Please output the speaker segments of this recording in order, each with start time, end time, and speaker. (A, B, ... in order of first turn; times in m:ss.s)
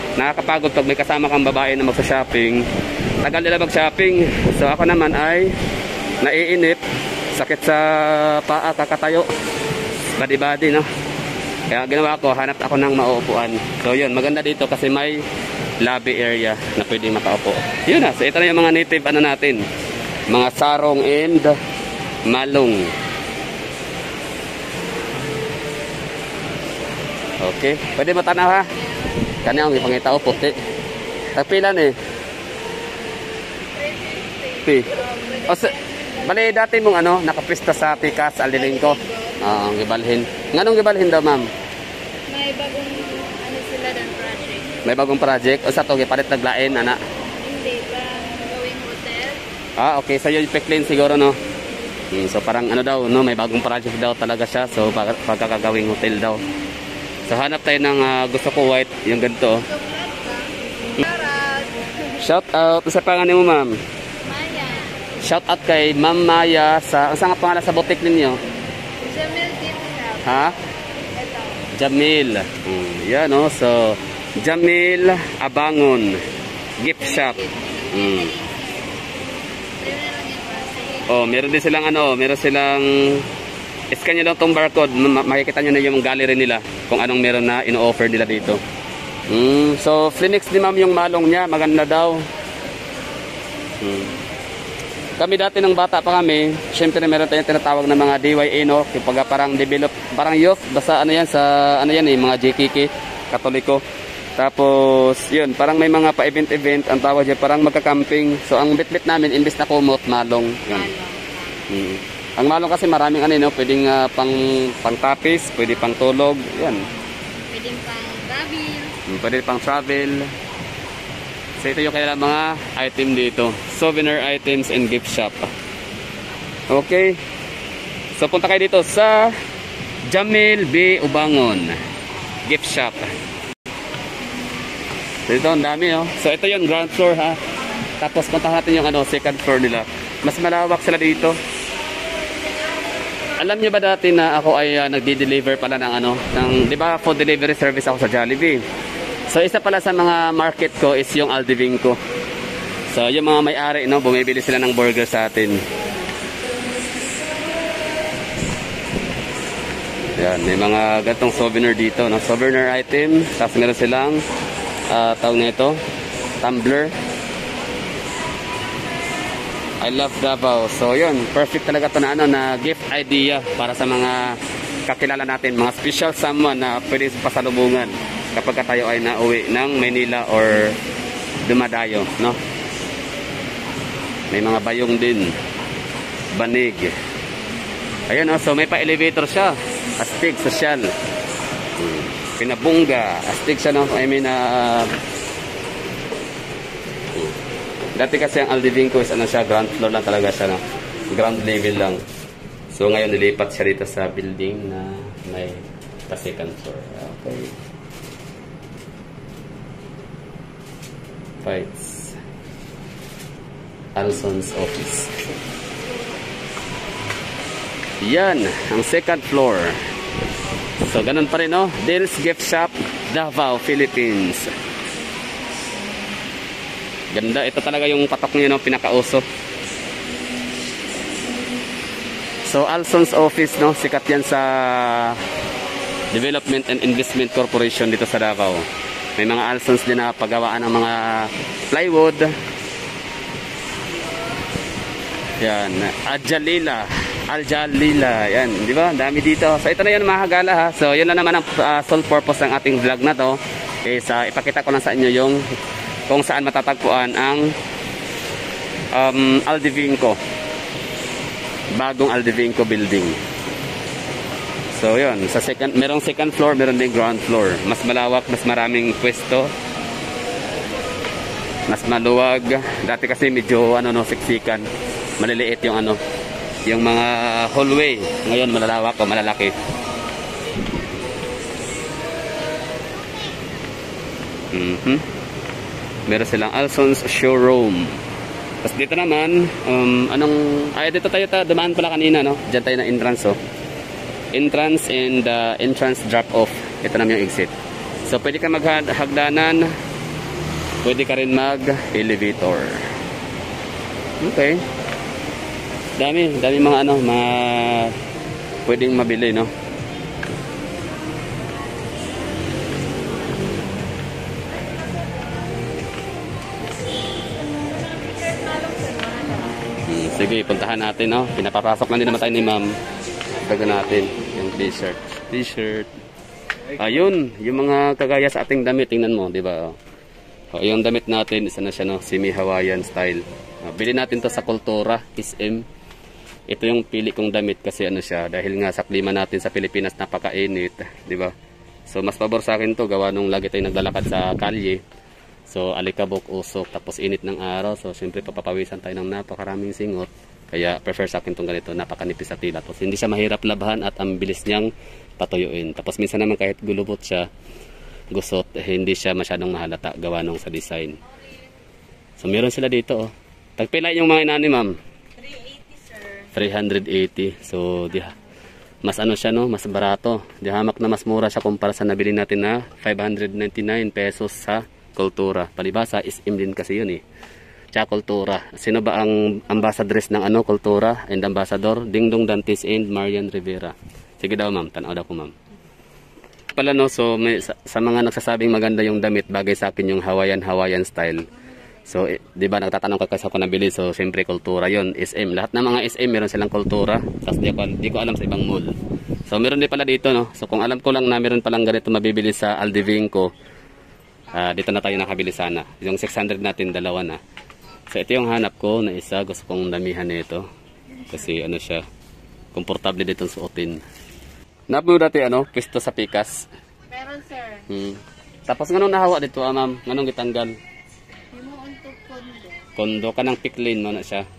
0:00.2-0:02.7 A
0:03.2-0:05.6 A
0:06.2-0:06.8 A
0:07.4-0:09.3 A
0:10.2-0:10.9 A
0:11.7-0:15.2 A
0:15.8-0:19.6 A
0:20.3-0:21.6 A
0:22.3-0:22.9 A
0:27.4-0:28.7 A
0:29.4-0:30.6 A
0:31.4-0:31.9 A
0:33.7-0:36.6 B
0:35.5-0:41.5 A
0:38.6-0:39.4 B
0:42.3-0:44.8 B
0:44.8-0:47.0 A
0:47.4-0:49.4 B
0:49.8-0:51.4 A
0:52.1-0:56.4 A
0:57.3-0:59.7 A
0:59.6-1:02.2 B
1:02.2-1:03.8 A
1:04.2-1:05.0 B
1:05.2-1:08.4 A
1:09.0-1:10.6 B
1:10.2-1:10.6 A
1:11.1-1:11.7 B
1:11.7-1:16.2 A
1:16.8-1:18.3 A
1:17.0-1:19.0 B
1:19.8-1:21.3 B
1:21.1-1:23.2 A
1:23.9-1:28.6 A
1:29.3-1:32.3 A
1:33.8-1:34.1 A
1:35.2-1:43.8 A
1:44.4-1:50.9 A
1:50.7-1:51.7 B
1:51.7-1:56.8 A
1:57.5-1:59.0 B
1:59.1-2:00.3 A
2:01.6-2:05.5 A
2:06.7-2:07.2 A
2:08.2-2:09.4 A
2:10.1-2:11.8 A
2:12.5-2:13.1 A
2:15.3-2:17.4 A
2:18.0-2:21.4 A
2:23.4-2:28.6 A
2:29.3-2:32.0 A
2:32.9-2:35.6 A
2:40.2-2:44.2 A
2:44.9-2:45.8 A
2:46.4-2:47.0 A
2:49.8-3:00.8 A
3:01.4-3:02.4 A
3:04.3-3:05.4 A
3:06.3-3:06.9 A
3:08.1-3:10.9 A
3:11.8-3:14.9 A
3:18.0-3:22.0 A
3:22.7-3:27.6 A
3:31.4-3:32.2 A
3:34.0-3:35.4 A
3:38.0-3:39.8 A
3:40.8-3:44.5 A
3:47.1-3:49.2 A
3:52.5-3:55.2 A
3:56.1-3:58.6 A
3:59.2-4:02.3 A
4:05.4-4:15.4 A
4:16.1-4:17.5 A
4:18.9-4:20.2 A
4:21.7-4:23.2 A
4:24.8-4:29.5 A
4:31.7-4:34.7 A
4:35.2-4:36.0 A
4:36.7-4:39.5 A
4:44.5-4:45.0 A
4:46.1-4:48.0 A
4:48.6-4:53.4 A
4:54.3-4:57.5 A
4:58.1-4:59.7 A
5:00.8-5:02.9 A
5:04.2-5:04.6 A
5:06.0-5:08.0 A
5:08.7-5:09.5 A
5:18.0-5:19.6 B
5:19.9-5:22.7 A
5:23.4-5:25.9 A
5:26.8-5:29.8 A
5:30.5-5:35.6 A
5:36.5-5:41.3 A
5:41.9-5:44.8 A
5:45.5-5:57.3 A
5:58.1-6:01.0 A
6:02.2-6:04.8 A
6:05.3-6:06.0 B
6:06.3-6:08.1 A
6:08.8-6:17.0 A
6:17.7-6:25.4 A
6:26.6-6:31.3 A
6:31.8-6:38.7 A
6:39.3-6:43.3 A
6:44.3-6:47.2 A
6:47.9-6:50.5 A
6:51.1-6:51.8 A
6:52.5-6:53.8 A
6:54.7-6:56.5 A
6:56.9-6:57.7 B
6:57.7-7:00.6 A
7:01.3-7:02.7 B
7:02.8-7:04.3 A